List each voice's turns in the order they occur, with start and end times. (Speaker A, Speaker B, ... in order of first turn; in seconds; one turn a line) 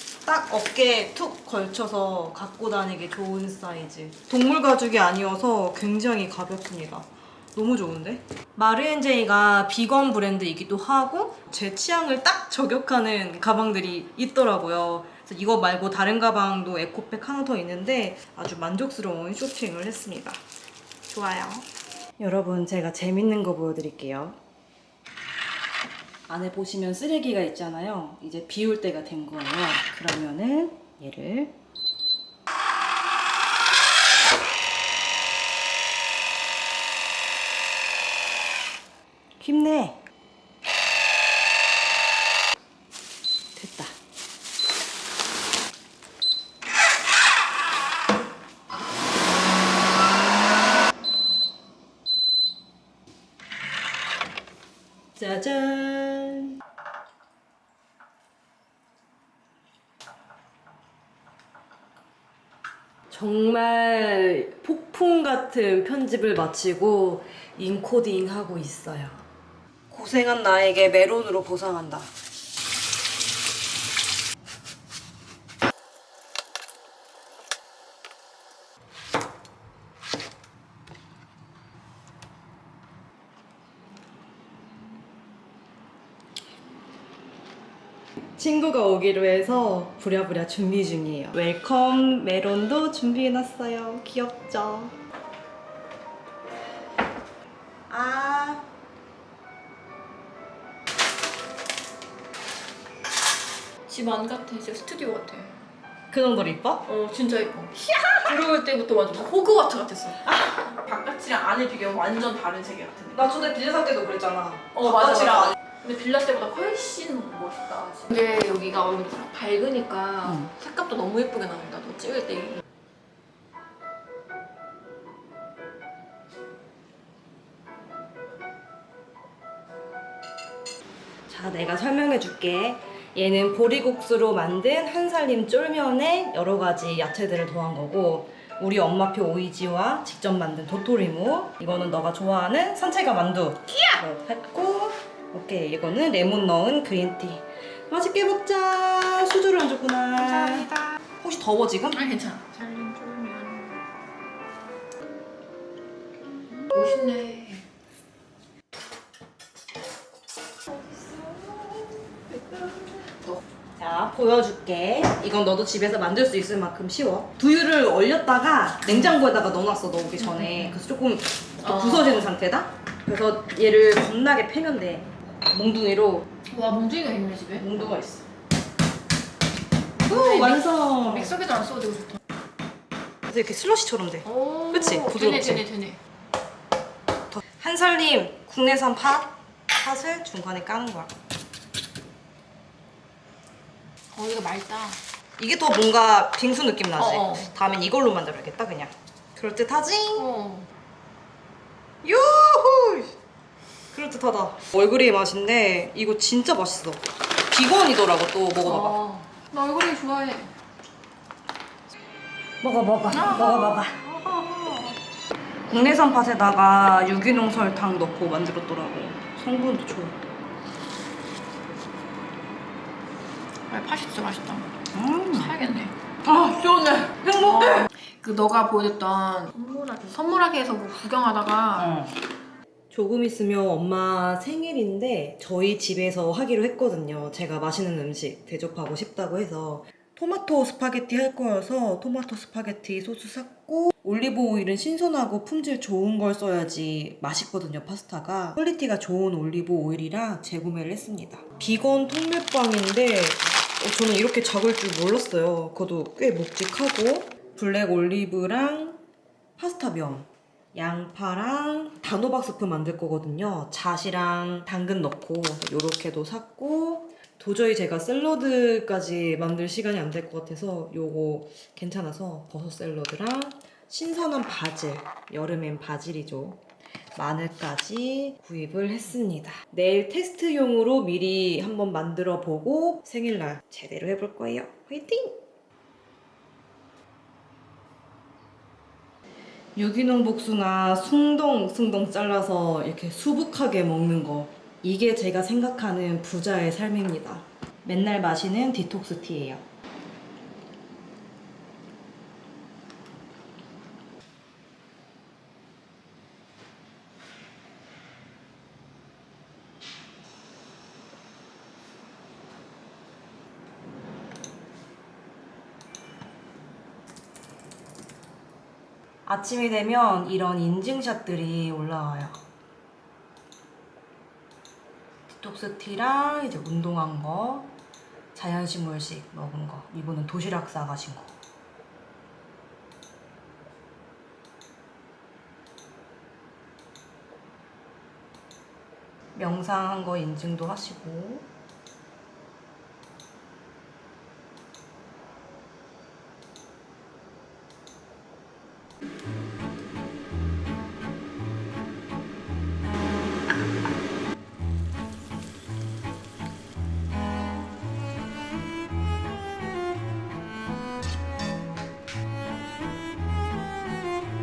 Speaker A: 0.2-20.4
Speaker A: 21.1-21.7
Speaker A: 22.2-24.4
Speaker A: 26.3-31.5
Speaker A: 39.4-40.0
Speaker A: 43.5-44.0
Speaker A: 55.1-56.6
Speaker A: 63.1-69.2
Speaker A: 69.9-72.1
Speaker A: 88.3-94.9
Speaker A: 97.9-98.7
Speaker B: 103.9-105.5
Speaker A: 106.1-106.9
Speaker B: 106.9-113.3
Speaker A: 113.1-115.5
Speaker B: 114.8-122.6
Speaker A: 120.2-120.5
Speaker A: 131.3-152.0
Speaker B: 150.4-151.0
Speaker B: 151.9-153.8
Speaker B: 156.7-157.7
Speaker A: 160.7-163.1
Speaker A: 163.8-176.3
Speaker B: 176.5-178.0
Speaker A: 177.6-178.2
Speaker A: 180.0-181.4
Speaker B: 180.1-182.2
Speaker A: 183.3-185.7
Speaker B: 184.3-186.0
Speaker A: 187.3-191.1
Speaker B: 194.1-195.0
Speaker A: 195.4-200.3
Speaker B: 197.0-197.5
Speaker B: 200.2-200.7
Speaker A: 202.0-203.1
Speaker A: 203.9-209.0
Speaker B: 208.7-210.5
Speaker A: 212.6-214.5
Speaker B: 213.1-213.8
Speaker A: 215.7-220.2
Speaker B: 223.7-224.7
Speaker A: 224.9-225.6
Speaker B: 225.3-225.9
Speaker A: 226.2-227.8
Speaker B: 226.7-232.0
Speaker A: 231.8-232.2
Speaker A: 232.9-259.0
Speaker A: 259.6-276.6
Speaker A: 277.1-285.4
Speaker A: 289.8-299.6
Speaker A: 319.2-322.4
Speaker A: 325.3-327.7
Speaker A: 328.3-331.3
Speaker A: 339.3-341.5